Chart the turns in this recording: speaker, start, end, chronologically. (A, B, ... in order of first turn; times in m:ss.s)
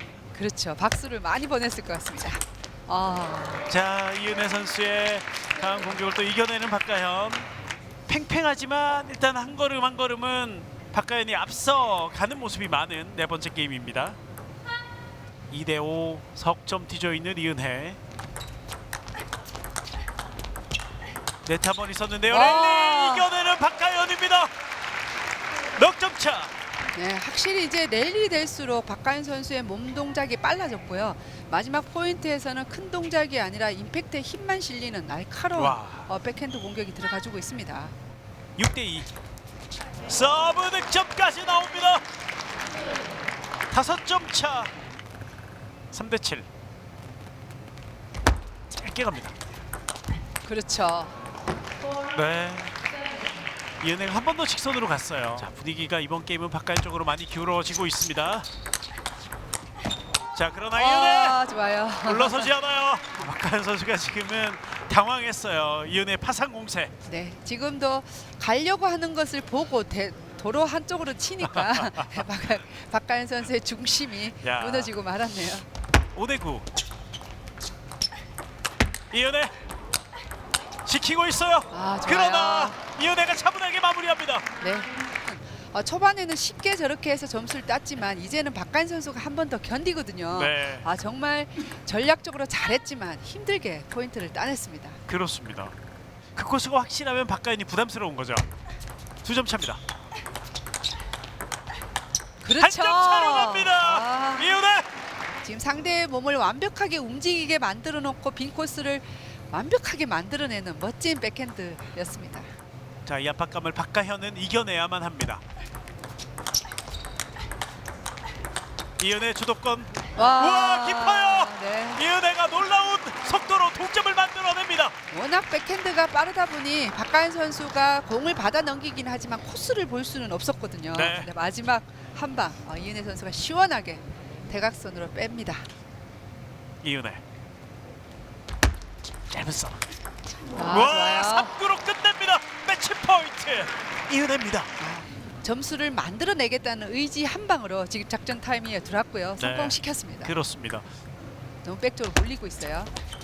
0:00.3-0:03.6 A
0:03.7-0:07.5 B
0:08.1-0:14.2 B
0:15.5-0:18.0 B
0:21.4-0:24.5 B
0:22.3-0:23.3 A
0:25.8-0:26.5 B
0:26.9-0:37.9 A
0:35.6-0:36.1 B
0:38.6-0:39.1 B
0:40.1-0:42.0 B
0:43.7-0:44.7 B
0:45.9-0:46.5 B
0:48.7-0:49.4 B
0:50.4-0:51.2 A
0:52.1-0:52.8 B
0:53.8-0:58.5 B
1:00.3-1:01.4 B
1:00.7-1:02.5 A
1:02.0-1:06.9 B
1:07.0-1:15.7 A
1:11.5-1:12.2 B
1:14.4-1:14.9 B
1:16.2-1:16.7 B
1:19.1-1:19.5 B
1:20.8-1:24.5 B
1:21.7-1:22.8 A
1:24.6-1:35.0 A
1:30.3-1:30.9 B
1:35.1-1:35.7 B
1:36.4-1:38.5 B
1:39.2-1:39.8 B
1:42.4-1:44.5 A
1:42.6-1:44.9 B
1:45.4-1:52.5 A
1:53.1-1:55.4 B
1:59.0-2:05.0 B
2:00.2-2:02.0 A
2:05.1-2:15.7 A
2:10.9-2:11.3 B
2:16.8-2:17.2 B
2:19.3-2:19.8 B
2:20.6-2:21.5 A
2:20.7-2:24.7 B
2:24.8-2:30.3 A
2:29.4-2:30.9 B
2:31.6-2:32.9 A